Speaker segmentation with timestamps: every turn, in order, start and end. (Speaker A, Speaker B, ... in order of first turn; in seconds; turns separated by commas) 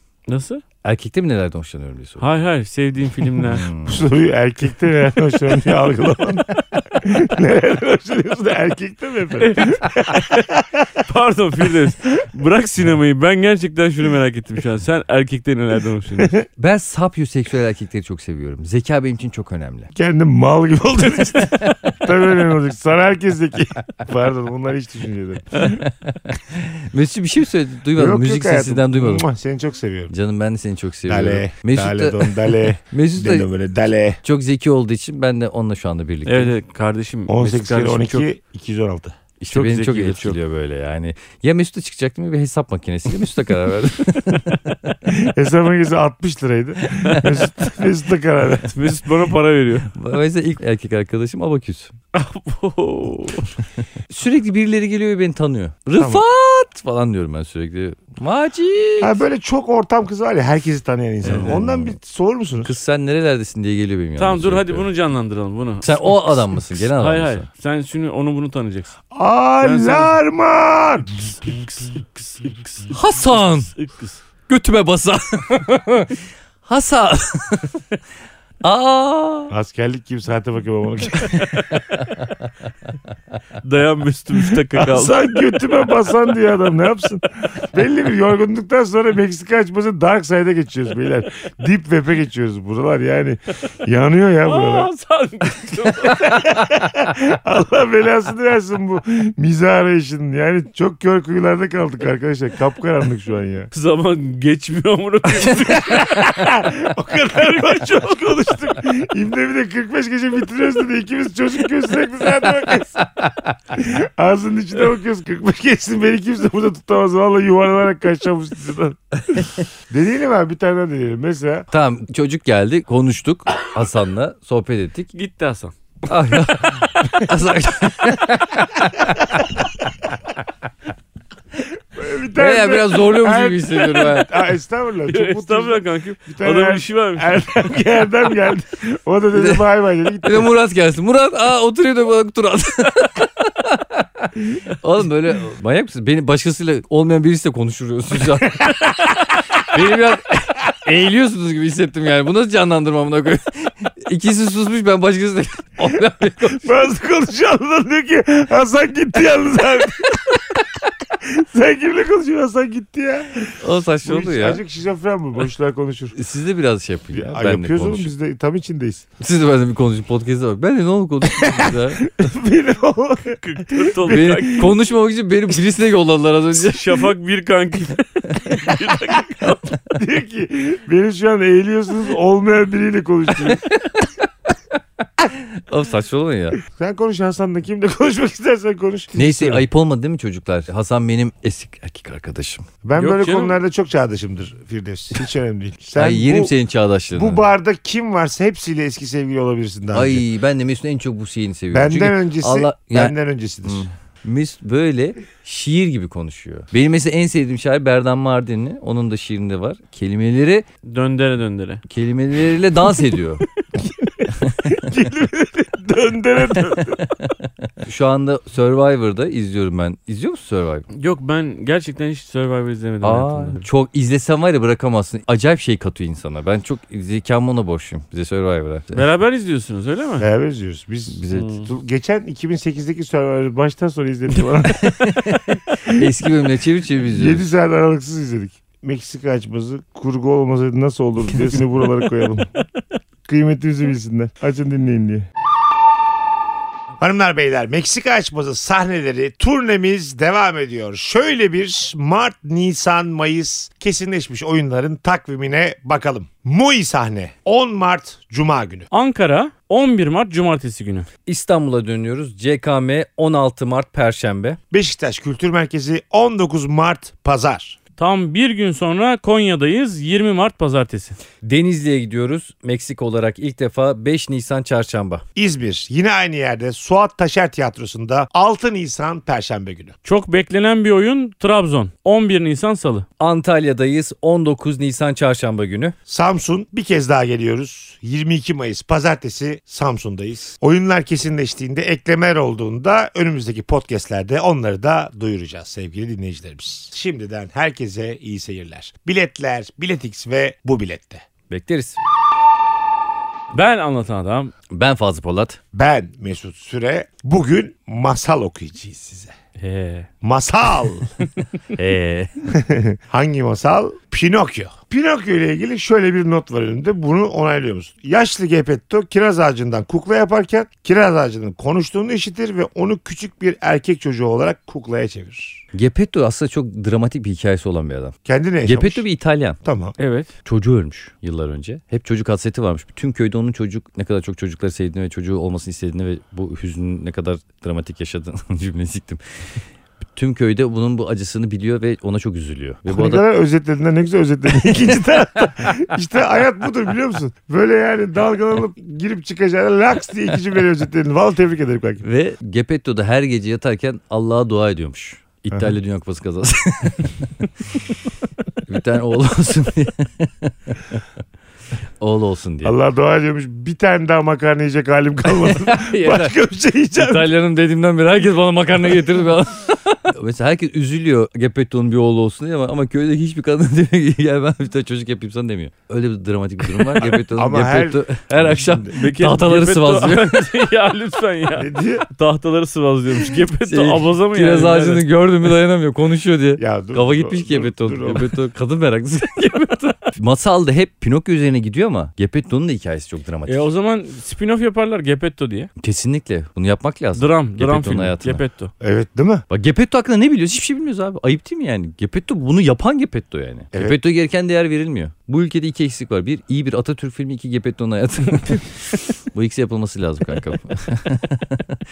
Speaker A: 0.3-0.6, Speaker B: 0.8-2.2, Speaker A: 2.2-3.7, Speaker B: 3.4-4.1, Speaker C: 3.8-10.9, Speaker A: 9.4-16.4, Speaker B: 16.6-19.9, Speaker C: 19.9-25.8, Speaker B: 21.6-21.9, Speaker B: 25.6-29.2, Speaker C: 27.9-30.1, Speaker B: 30.1-33.5, Speaker C: 31.1-34.2, Speaker B: 34.2-36.5, Speaker A: 36.2-38.3, Speaker C: 37.3-39.1, Speaker B: 39.4-44.9, Speaker A: 39.5-40.4, Speaker C: 45.1-48.8, Speaker A: 48.6-49.9, Speaker B: 49.9-51.9, Speaker A: 52.1-53.5, Speaker B: 54.1-59.2, Speaker C: 56.0-56.2, Speaker C: 59.0-62.7, Speaker A: 61.2-61.6, Speaker B: 61.2-62.0, Speaker B: 62.6-64.9, Speaker A: 64.2-66.1, Speaker B: 65.8-67.5, Speaker A: 66.8-68.9, Speaker C: 69.1-71.2, Speaker A: 69.6-70.1, Speaker A: 71.4-74.2, Speaker B: 72.9-73.7, Speaker B: 74.5-77.8, Speaker B: 78.6-79.5, Speaker C: 79.5-81.7, Speaker A: 83.6-85.1, Speaker C: 84.7-94.9, Speaker A: 94.4-96.5, Speaker C: 96.0-103.7, Speaker A: 103.7-106.4, Speaker C: 105.6-113.1, Speaker C: 113.7-121.7, Speaker B: 121.7-125.1, Speaker A: 125.1-125.7, Speaker B: 126.1-129.6, Speaker C: 129.0-129.4, Speaker C: 131.7-140.5, Speaker B: 132.3-134.5, Speaker A: 135.1-137.7, Speaker B: 139.3-139.7, Speaker B: 140.2-156.7, Speaker C: 156.4-160.6, Speaker C: 161.2-166.2, Speaker B: 163.6-164.6, Speaker B: 166.1-168.1, Speaker C: 167.1-169.1, Speaker B: 169.2-172.2, Speaker C: 171.3-174.6, Speaker A: 173.4-174.7, Speaker B: 174.1-177.1, Speaker A: 176.6-179.7, Speaker C: 179.9-183.6, Speaker B: 185.3-186.6, Speaker C: 186.7-189.6, Speaker B: 189.1-192.7, Speaker C: 192.8-196.5, Speaker A: 193.0-193.6, Speaker B: 195.9-197.4, Speaker C: 197.1-200.2, Speaker B: 199.9-210.7, Speaker C: 201.7-203.9, Speaker A: 210.8-211.8, Speaker B: 211.9-213.4, Speaker C: 213.8-217.1, Speaker B: 214.5-214.8, Speaker B: 217.8-220.9, Speaker A: 220.9-223.6, Speaker B: 223.0-229.0, Speaker A: 228.9-230.2, Speaker C: 230.2-236.0, Speaker B: 231.1-231.6, Speaker A: 231.3-231.7, Speaker B: 234.6-237.4, Speaker C: 237.1-242.5, Speaker C: 243.3-245.3, Speaker C: 247.0-258.9, Speaker A: 258.9-261.1, Speaker B: 261.3-264.6, Speaker C: 264.7-267.8, Speaker A: 268.0-271.2, Speaker B: 271.4-275.2, Speaker C: 275.4-279.9, Speaker A: 280.0-283.1, Speaker B: 283.2-285.9, Speaker C: 286.1-301.2, Speaker B: 301.5-302.0, Speaker A: 303.5-304.5, Speaker B: 304.7-305.6, Speaker C: 305.7-309.3, Speaker A: 309.6-310.1, Speaker C: 310.2-311.1, Speaker B: 311.7-312.3, Speaker C: 312.5-325.6, Speaker B: 325.7-329.6, Speaker C: 328.2-329.0, Speaker C: 329.6-329.9, Speaker A: 330.0-330.3, Speaker B: 330.4-339.2, Speaker B: 340.1-343.2, Speaker C: 342.9-352.0, Speaker B: 352.0-357.8, Speaker B: 358.6-361.0, Speaker B: 362.0-362.7, Speaker C: 362.6-367.3, Speaker B: 365.3-366.3, Speaker B: 367.0-380.5, Speaker C: 377.0-378.9, Speaker A: 378.9-385.1, Speaker C: 381.6-382.1, Speaker B: 383.6-393.7, Speaker C: 386.6-388.3, Speaker A: 393.5-395.7, Speaker B: 395.8-398.4, Speaker A: 397.2-398.7, Speaker C: 398.8-399.4, Speaker B: 399.5-411.8, Speaker C: 403.7-404.0